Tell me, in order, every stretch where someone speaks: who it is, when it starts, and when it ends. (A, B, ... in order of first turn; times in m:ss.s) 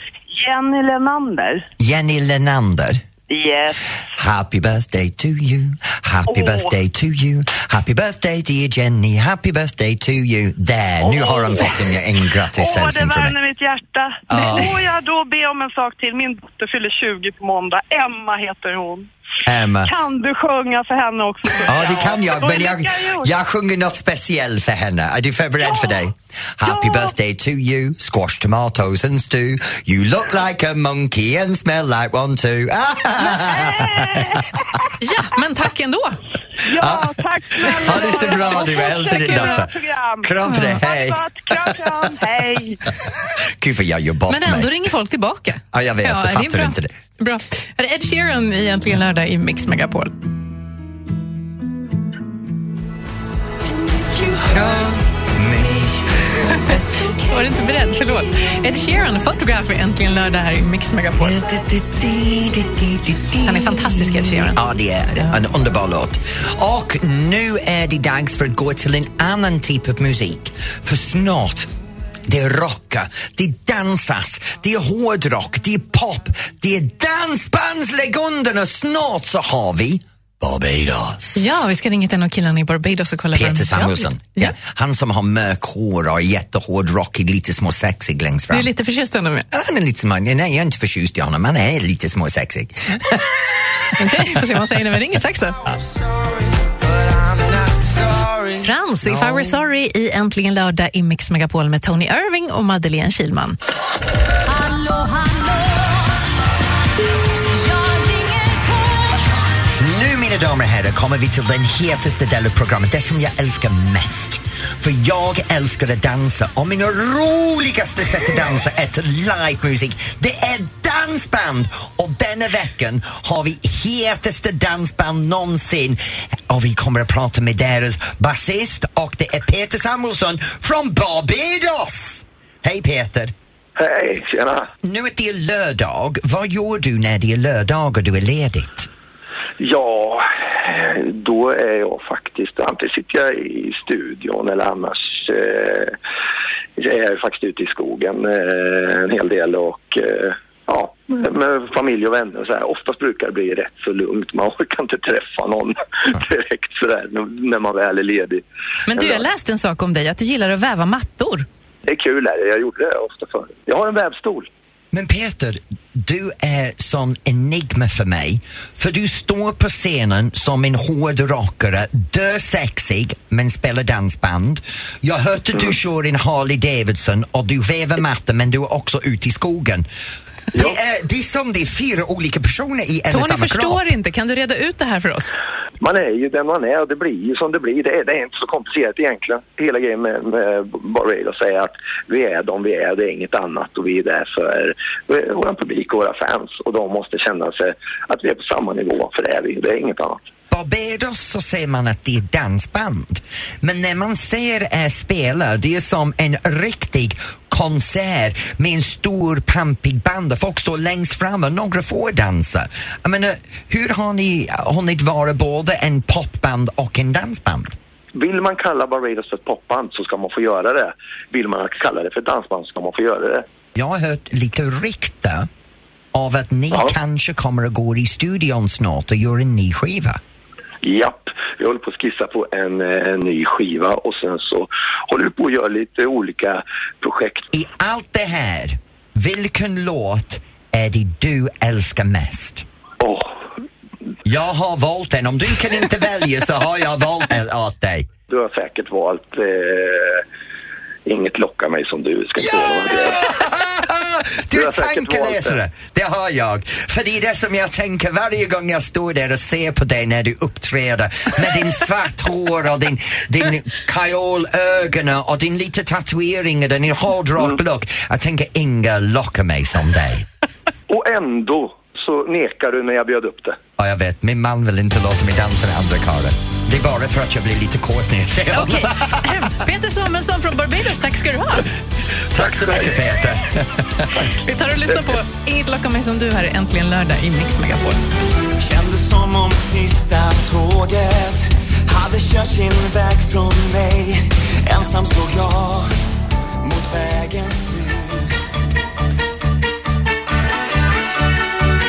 0:00.3-0:01.7 A
0:01.8-0:03.0 B
0:03.3-0:03.9 A
0:04.2-0:13.4 B
0:06.3-0:06.8 A
0:11.0-0:11.9 A
0:12.5-0:19.1 A
0:14.3-0:14.8 B
0:19.4-0:19.9 B
0:19.8-0:23.3 A
0:21.7-0:34.4 B
0:25.6-0:26.0 A
0:26.6-0:27.1 A
0:33.4-0:34.9 A
0:35.0-0:36.2 C
0:36.6-0:42.9 A
0:36.8-0:41.9 B
0:38.0-0:39.6 C
0:40.4-0:40.8 C
0:43.6-0:44.8 B
0:44.3-0:50.1 C
0:45.7-0:46.9 B
0:54.4-0:57.0 B
0:56.6-1:01.4 C
1:01.2-1:11.7 B
1:03.4-1:04.6 C
1:12.3-1:21.4 B
1:21.4-1:24.6 C
1:23.3-1:28.7 B
1:28.5-1:29.5 C
1:29.5-1:33.4 B
1:34.0-1:35.6 C
1:37.5-1:38.1 D
1:38.6-1:43.6 C
1:44.4-1:46.3 D
1:47.5-1:49.3 D
1:49.8-2:13.3 B
2:13.8-2:14.7 E
2:14.8-2:18.9 B
2:19.6-2:26.0 E
2:26.8-2:39.2 E
2:38.9-2:41.5 C
2:41.9-2:44.5 E
2:44.9-2:59.9 B
3:00.5-3:03.9 B
3:03.1-3:05.3 C
3:05.8-3:20.2 E
3:20.5-3:37.8 B
3:38.2-3:43.4 E
3:43.8-3:45.5 B
3:46.1-3:50.2 B
3:50.8-3:57.5 E
3:57.5-4:02.7 B
4:03.0-4:03.4 E
4:04.2-4:08.1 B
4:08.3-4:10.2 E
4:11.1-4:13.3 E
4:12.4-4:30.3 B
4:14.5-4:15.6 E
4:30.9-4:33.6 E
4:33.8-4:39.3 B
4:38.5-4:41.7 C
4:42.3-4:44.2 B
4:42.4-4:43.0 E
4:44.4-4:48.0 C
4:48.6-4:55.9 F
4:56.6-4:58.4 F